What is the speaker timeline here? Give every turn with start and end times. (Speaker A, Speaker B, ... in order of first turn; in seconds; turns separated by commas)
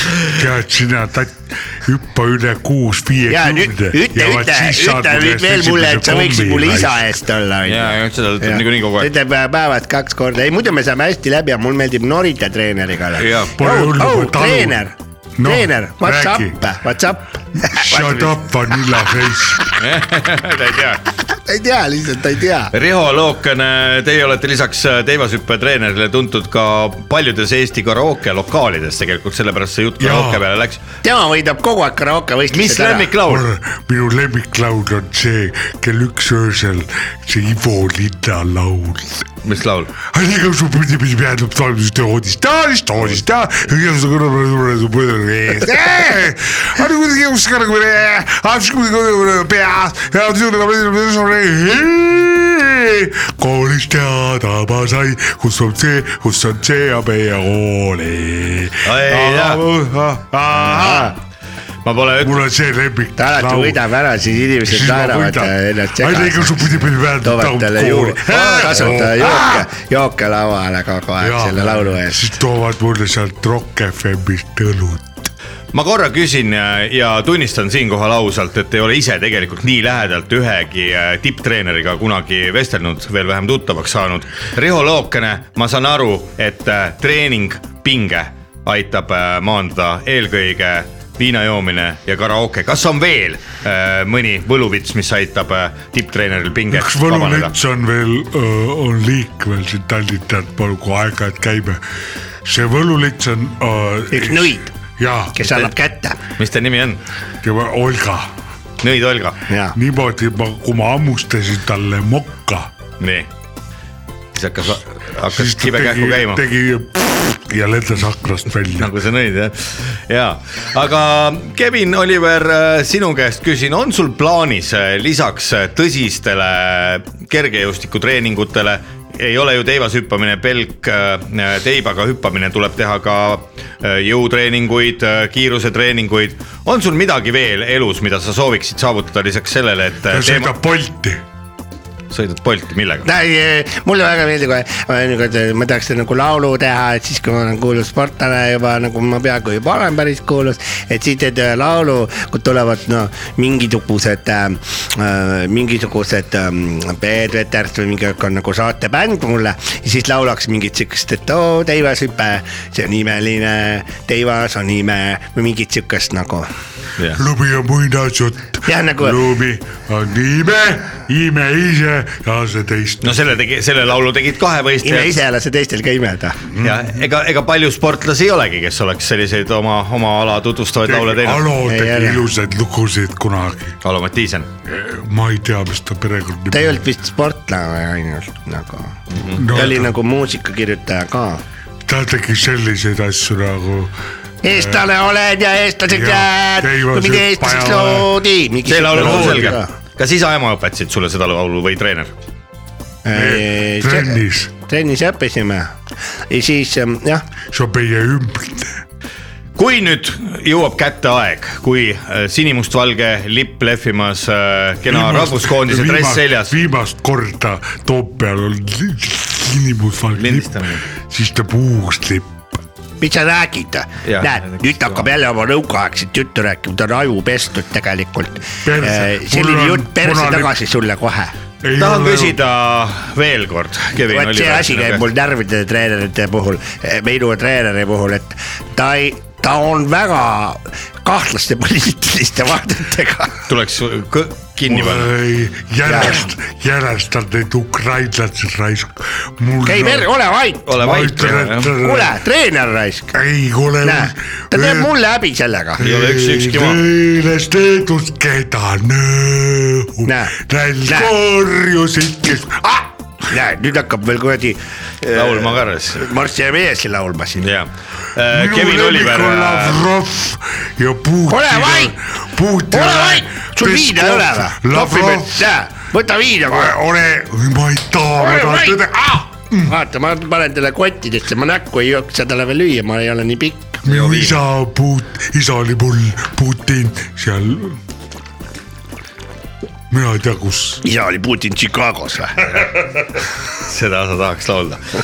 Speaker A: 0.3-7.0, Speaker B: 3.3-18.4, Speaker C: 7.7-9.1, Speaker C: 13.2-13.5, Speaker A: 13.5-14.8, Speaker A: 15.4-16.6, Speaker A: 17.6-19.6, Speaker C: 19.8-21.0, Speaker B: 21.3-22.7, Speaker C: 22.7-30.8, Speaker A: 30.0-30.4, Speaker B: 31.0-33.1, Speaker C: 32.5-33.5, Speaker A: 33.2-39.3, Speaker C: 39.4-39.9, Speaker A: 40.0-61.2, Speaker C: 58.8-59.6, Speaker B: 60.5-61.1, Speaker C: 61.8-62.4, Speaker A: 62.2-63.8, Speaker B: 63.2-72.3, Speaker A: 64.7-69.7, Speaker C: 68.3-68.9, Speaker A: 71.2-75.3, Speaker C: 75.7-97.5, Speaker A: 96.7-101.8, Speaker A: 102.4-105.4, Speaker B: 104.1-104.7, Speaker B: 105.3-106.2, Speaker C: 105.4-105.7, Speaker C: 106.4-107.0, Speaker A: 107.4-108.3, Speaker C: 108.8-109.4, Speaker B: 109.5-109.8, Speaker A: 109.7-112.7, Speaker C: 113.0-113.3, Speaker C: 114.3-116.4, Speaker A: 115.3-118.9, Speaker C: 118.7-140.5, Speaker A: 140.1-141.2, Speaker C: 142.1-143.1, Speaker B: 143.0-166.5, Speaker A: 167.2-173.4, Speaker B: 168.6-169.2, Speaker C: 173.0-175.2, Speaker B: 174.8-176.4, Speaker A: 176.5-176.9, Speaker C: 176.6-181.5, Speaker A: 180.8-183.8, Speaker B: 181.6-182.2, Speaker C: 183.8-184.5, Speaker A: 184.7-186.8, Speaker B: 186.5-189.0, Speaker C: 189.1-189.7, Speaker A: 189.3-189.9, Speaker B: 189.5-191.4, Speaker A: 191.8-193.9, Speaker B: 194.4-199.7, Speaker A: 194.5-194.9, Speaker A: 195.9-198.1, Speaker C: 198.7-202.1, Speaker A: 198.9-199.6, Speaker B: 203.0-205.8, Speaker A: 203.1-204.5, Speaker B: 206.3-207.3, Speaker A: 207.5-208.8, Speaker C: 209.6-216.5, Speaker A: 214.9-222.3, Speaker C: 220.1-220.8, Speaker B: 223.0-231.3, Speaker C: 224.0-225.1, Speaker A: 228.6-230.5, Speaker A: 231.6-232.4, Speaker C: 231.7-235.1, Speaker B: 234.0-243.4, Speaker C: 243.5-245.1, Speaker A: 244.7-250.1, Speaker B: 245.8-246.2, Speaker B: 249.6-250.7, Speaker C: 250.7-251.7, Speaker A: 250.7-252.1, Speaker B: 251.8-253.1, Speaker A: 253.1-254.9, Speaker B: 253.8-255.8, Speaker A: 255.8-262.9, Speaker C: 255.8-256.8, Speaker B: 260.1-261.1, Speaker B: 263.3-267.5, Speaker C: 265.1-266.1, Speaker C: 267.4-269.8, Speaker A: 268.3-275.5, Speaker B: 271.3-271.9, Speaker B: 272.7-276.8, Speaker A: 276.4-279.7, Speaker B: 278.2-278.9, Speaker B: 279.6-283.9, Speaker A: 283.8-287.8, Speaker C: 283.9-284.4, Speaker A: 289.9-290.8, Speaker B: 290.8-292.7, Speaker C: 293.6-294.8